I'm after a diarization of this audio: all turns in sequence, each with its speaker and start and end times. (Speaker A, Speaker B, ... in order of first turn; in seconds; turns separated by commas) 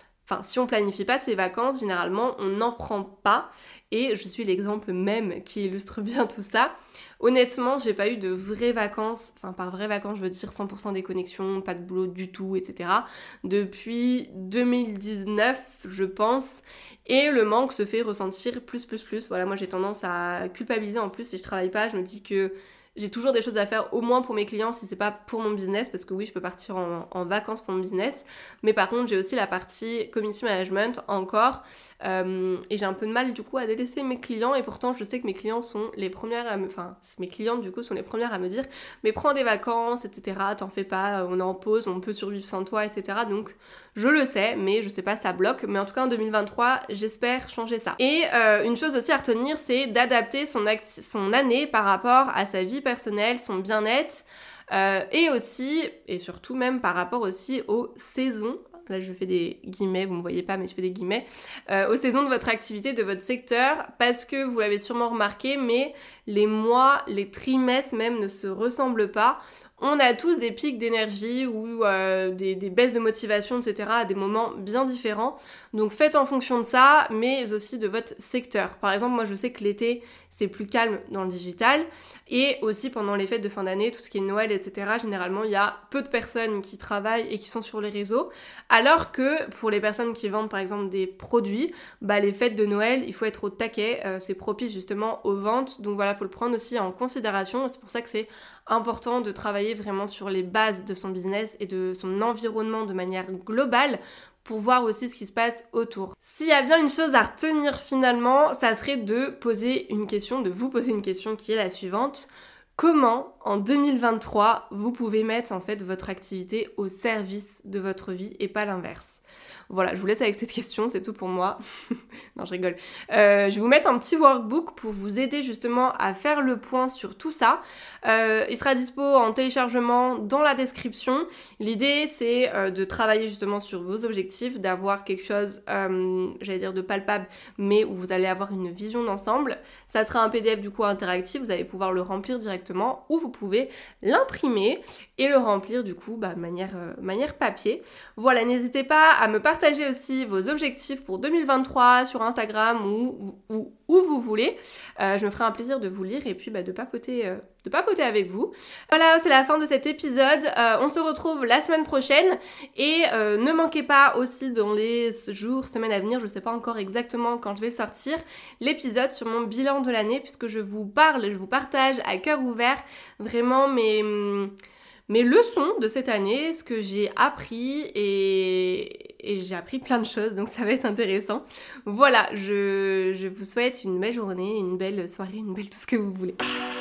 Speaker A: 0.2-121.6, Speaker A: 122.3-174.5, Speaker A: 175.1-186.4